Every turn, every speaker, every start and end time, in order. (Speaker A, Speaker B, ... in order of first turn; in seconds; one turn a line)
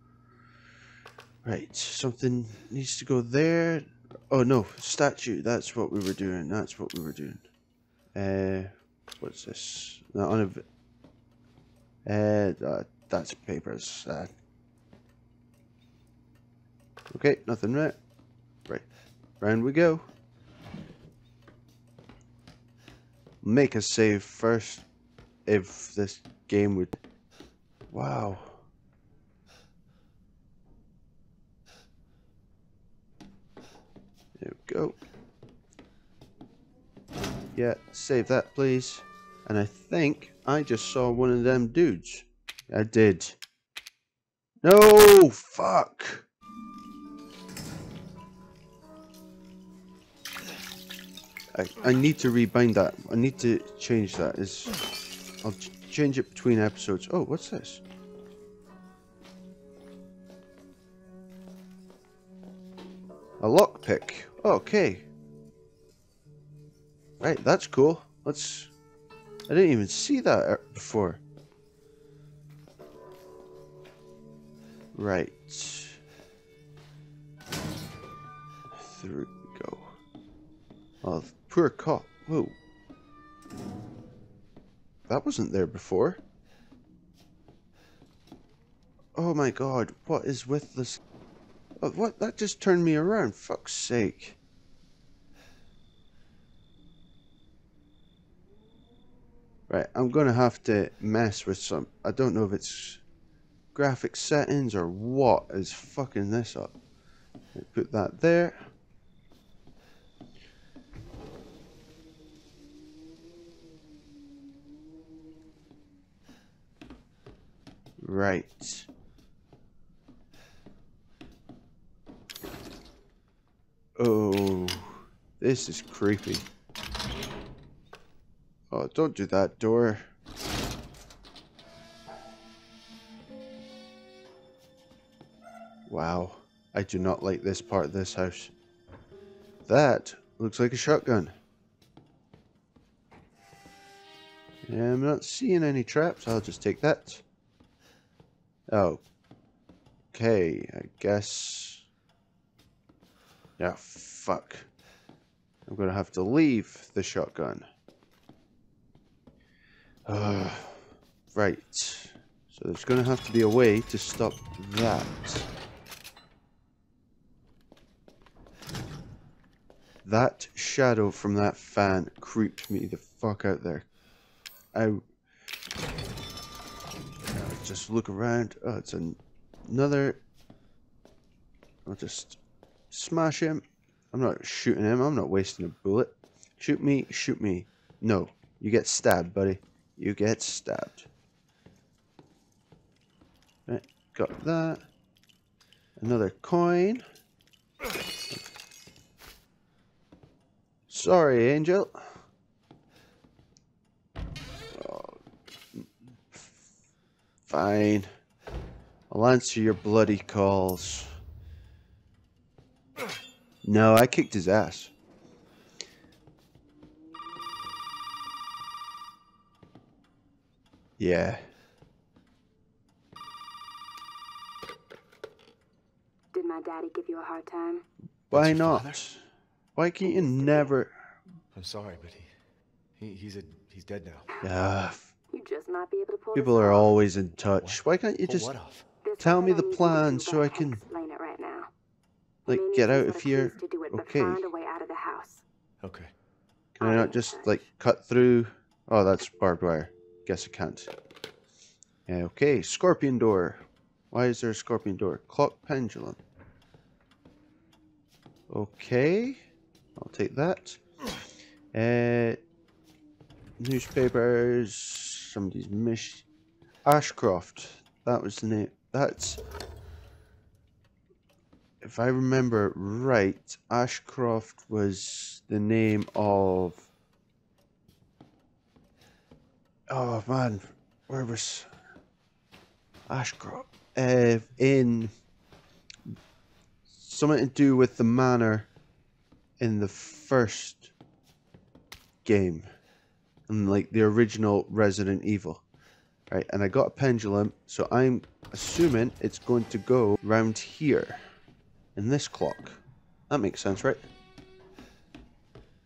Speaker A: 1.4-7.4
Speaker A: 8.1-10.6
Speaker A: 12.0-14.3
Speaker A: 17.1-18.0
Speaker A: 19.4-20.1
Speaker A: 23.4-24.8
Speaker A: 25.5-27.0
Speaker A: 27.9-28.6
Speaker A: 34.4-35.0
Speaker A: 37.5-43.4
Speaker A: 44.6-46.2
Speaker A: 51.5-54.7
Speaker A: 55.4-57.8
Speaker A: 63.4-65.0
Speaker A: 67.2-68.7
Speaker A: 69.5-71.2
Speaker A: 74.9-76.0
Speaker A: 78.7-79.9
Speaker A: 81.0-82.5
Speaker A: 85.1-86.2
Speaker A: 89.2-91.0
Speaker A: 91.8-94.4
Speaker A: 99.7-103.0
Speaker A: 103.7-106.7
Speaker A: 107.5-108.7
Speaker A: 118.0-118.9
Speaker A: 124.0-126.5
Speaker A: 128.7-130.0
Speaker A: 135.9-138.5
Speaker A: 139.7-141.3
Speaker A: 144.7-147.2
Speaker A: 148.7-149.0
Speaker A: 150.1-151.8
Speaker A: 153.6-154.7
Speaker A: 155.7-157.7
Speaker A: 160.1-165.4
Speaker A: 170.0-173.8
Speaker A: 174.7-175.0
Speaker A: 177.3-180.2
Speaker A: 181.8-182.4
Speaker A: 182.9-191.1
Speaker A: 193.7-194.8
Speaker A: 196.0-197.0
Speaker A: 200.9-201.9
Speaker A: 204.7-205.2
Speaker A: 205.7-206.6
Speaker A: 207.5-208.1
Speaker A: 209.1-211.1
Speaker A: 213.6-214.9
Speaker A: 221.0-221.4
Speaker B: 226.3-227.8
Speaker A: 228.3-229.2
Speaker C: 228.3-229.1
Speaker A: 229.8-230.9
Speaker C: 231.5-232.3
Speaker C: 233.0-234.3
Speaker A: 234.4-235.1
Speaker B: 235.3-236.9
Speaker A: 236.3-238.5
Speaker C: 237.6-238.8
Speaker B: 239.0-241.7
Speaker A: 239.2-240.8
Speaker A: 242.5-244.5
Speaker B: 242.5-245.4
Speaker C: 245.8-246.1
Speaker A: 246.7-250.9
Speaker B: 246.8-247.5
Speaker A: 252.1-256.2
Speaker A: 258.5-259.4
Speaker A: 259.9-260.8
Speaker A: 261.7-262.4
Speaker A: 263.6-266.2
Speaker A: 266.8-269.4
Speaker A: 271.8-276.8
Speaker A: 279.9-281.7
Speaker A: 283.1-285.1
Speaker A: 286.9-288.7
Speaker A: 289.6-290.9
Speaker A: 292.2-292.7
Speaker A: 293.5-295.6
Speaker A: 296.3-301.2
Speaker A: 301.9-304.0